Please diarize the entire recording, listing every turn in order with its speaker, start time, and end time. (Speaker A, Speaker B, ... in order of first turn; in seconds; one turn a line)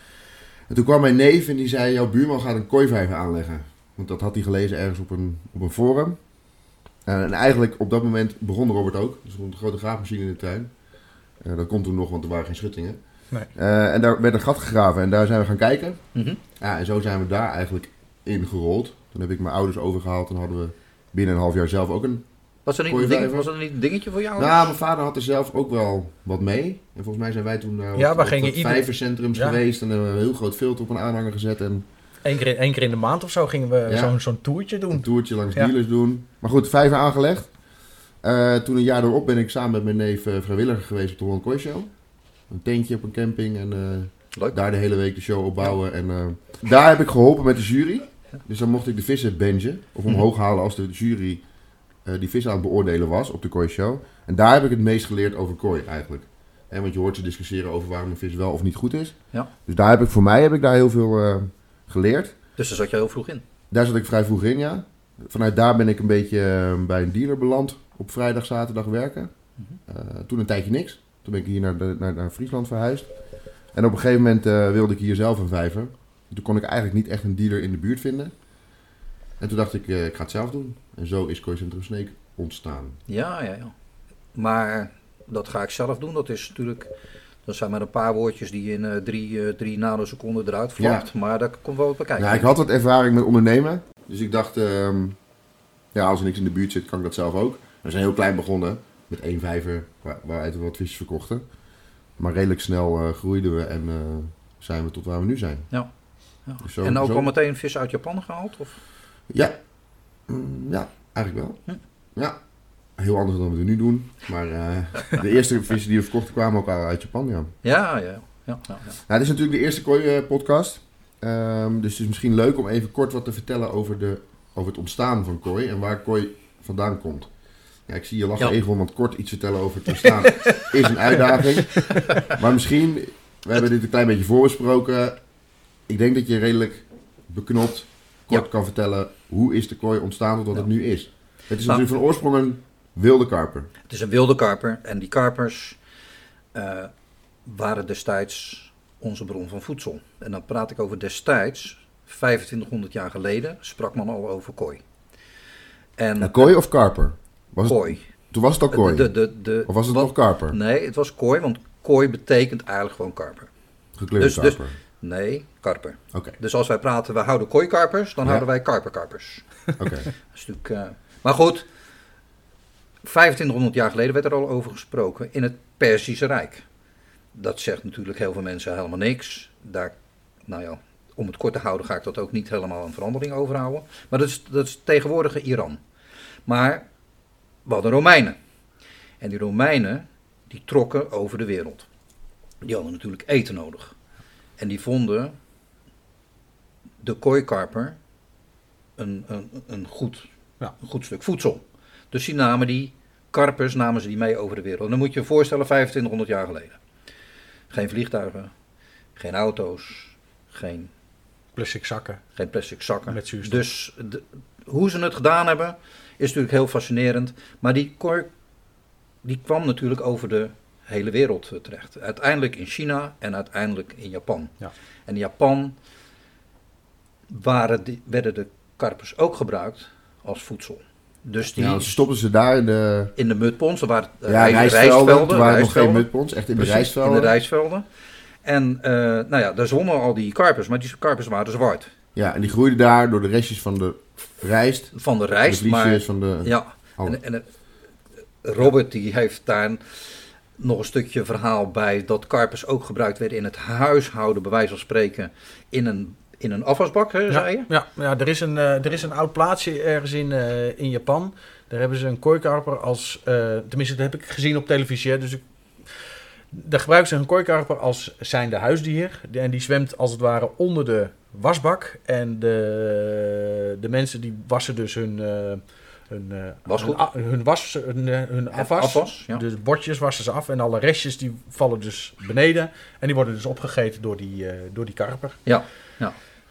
Speaker A: 0.7-6.2
Speaker A: 7.0-10.7
Speaker A: 11.4-13.0
Speaker A: 13.5-16.0
Speaker B: 16.1-16.4
Speaker A: 16.6-22.2
Speaker B: 22.6-24.7
Speaker A: 22.9-23.5
Speaker A: 24.4-31.8
Speaker C: 28.0-29.6
Speaker C: 32.2-35.7
Speaker A: 33.9-34.1
Speaker A: 34.9-37.5
Speaker A: 38.2-41.9
Speaker A: 42.5-51.4
Speaker A: 52.0-62.3
Speaker B: 62.6-63.4
Speaker A: 63.7-69.3
Speaker A: 69.9-73.1
Speaker A: 73.7-78.3
Speaker A: 79.4-83.0
Speaker B: 83.1-83.7
Speaker B: 84.3-86.9
Speaker B: 87.5-92.5
Speaker A: 90.8-91.0
Speaker A: 92.2-95.2
Speaker A: 95.9-101.4
Speaker A: 102.2-105.7
Speaker B: 106.4-108.8
Speaker A: 106.6-107.3
Speaker A: 109.3-109.5
Speaker A: 110.3-111.6
Speaker A: 112.1-112.4
Speaker A: 113.0-117.5
Speaker B: 117.6-118.9
Speaker A: 119.1-127.3
Speaker A: 127.9-135.2
Speaker B: 131.9-132.2
Speaker A: 135.9-143.7
Speaker B: 143.9-145.8
Speaker B: 146.5-146.9
Speaker B: 147.4-154.8
Speaker B: 156.0-156.5
Speaker A: 156.2-160.6
Speaker B: 157.6-158.0
Speaker B: 158.7-163.5
Speaker A: 164.0-164.7
Speaker B: 164.2-169.7
Speaker A: 169.8-170.1
Speaker B: 170.3-171.7
Speaker B: 173.0-176.6
Speaker B: 177.3-179.9
Speaker B: 180.4-185.8
Speaker B: 186.4-186.8
Speaker B: 187.7-188.4
Speaker B: 189.2-191.9
Speaker B: 192.6-193.9
Speaker B: 194.6-195.3
Speaker B: 197.0-197.9
Speaker B: 199.0-200.3
Speaker B: 200.8-206.8
Speaker B: 207.7-208.5
Speaker B: 209.2-210.9
Speaker C: 211.6-212.2
Speaker B: 212.4-218.3
Speaker C: 213.1-213.6
Speaker B: 219.2-225.7
Speaker B: 227.3-232.0
Speaker A: 231.6-233.1
Speaker B: 233.2-237.8
Speaker A: 234.2-237.3
Speaker B: 238.4-241.9
Speaker A: 242.1-247.2
Speaker B: 244.9-247.4
Speaker B: 248.4-250.0
Speaker B: 250.6-257.7
Speaker C: 257.3-285.4
Speaker B: 276.7-277.0
Speaker B: 278.5-279.4
Speaker B: 285.4-286.1